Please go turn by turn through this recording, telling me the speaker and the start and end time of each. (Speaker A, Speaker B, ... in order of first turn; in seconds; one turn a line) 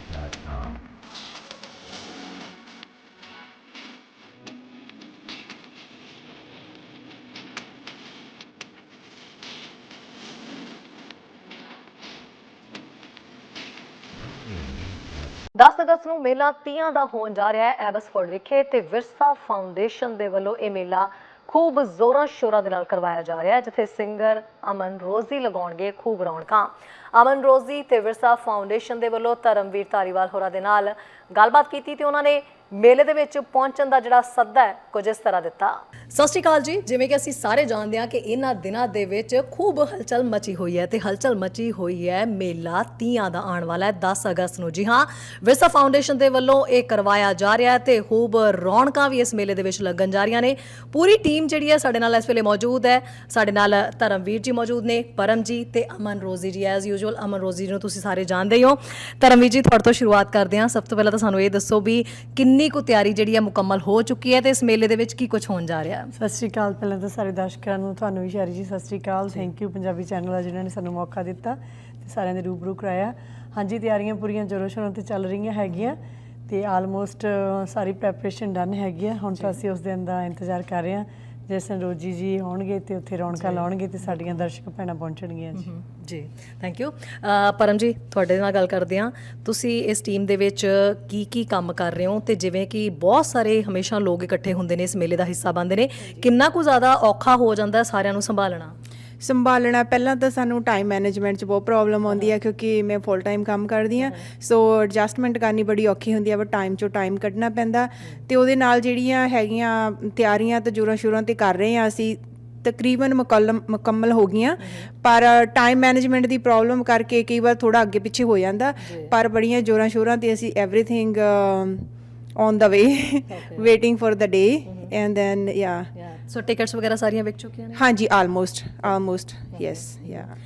Speaker A: 15.6-66.1
Speaker B: 66.2-85.7
Speaker A: 75.7-76.0
Speaker A: 79.3-79.6
Speaker A: 83.3-84.5
Speaker A: 85.5-98.8
Speaker C: 99.2-121.9
Speaker A: 118.8-119.1
Speaker C: 122.4-125.9
Speaker A: 123.3-123.7
Speaker A: 126.0-127.8
Speaker C: 127.8-130.3
Speaker A: 129.5-129.8